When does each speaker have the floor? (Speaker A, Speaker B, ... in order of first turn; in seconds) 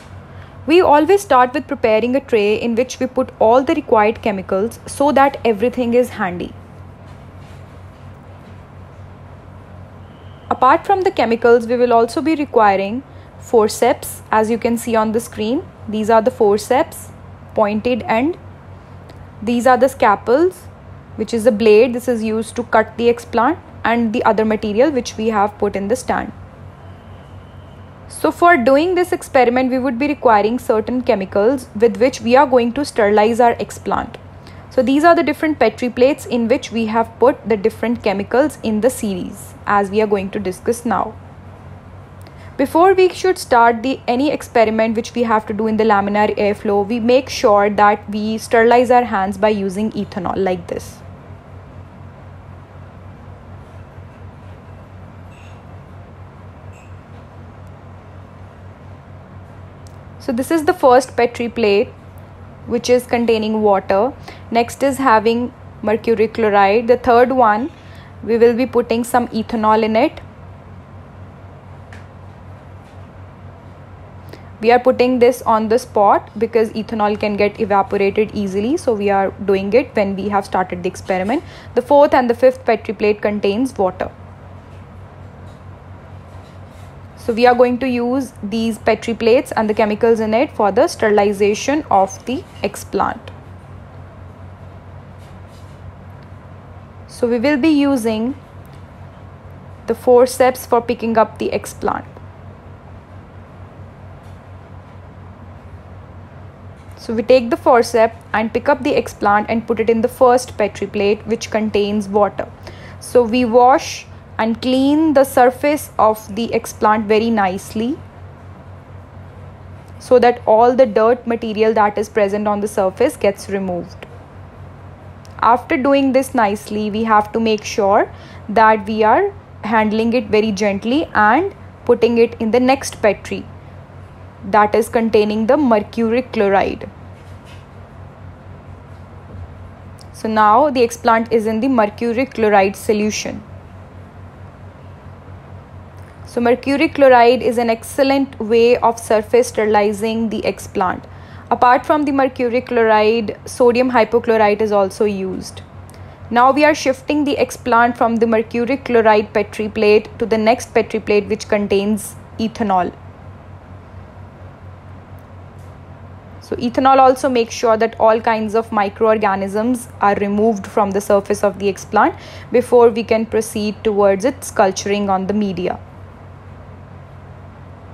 Speaker A: 0.7-6.5, 10.5-18.4, 19.4-26.3, 28.1-34.2, 34.7-41.1, 42.6-51.0, 60.2-61.9, 62.6-67.7, 68.2-70.2, 74.6-84.1, 87.2-93.3, 97.1-98.4, 99.8-102.1, 107.0-118.0, 120.0-124.1, 125.4-133.5, 134.4-136.9, 140.1-143.4, 146.2-155.6, 156.3-162.9, 166.4-175.8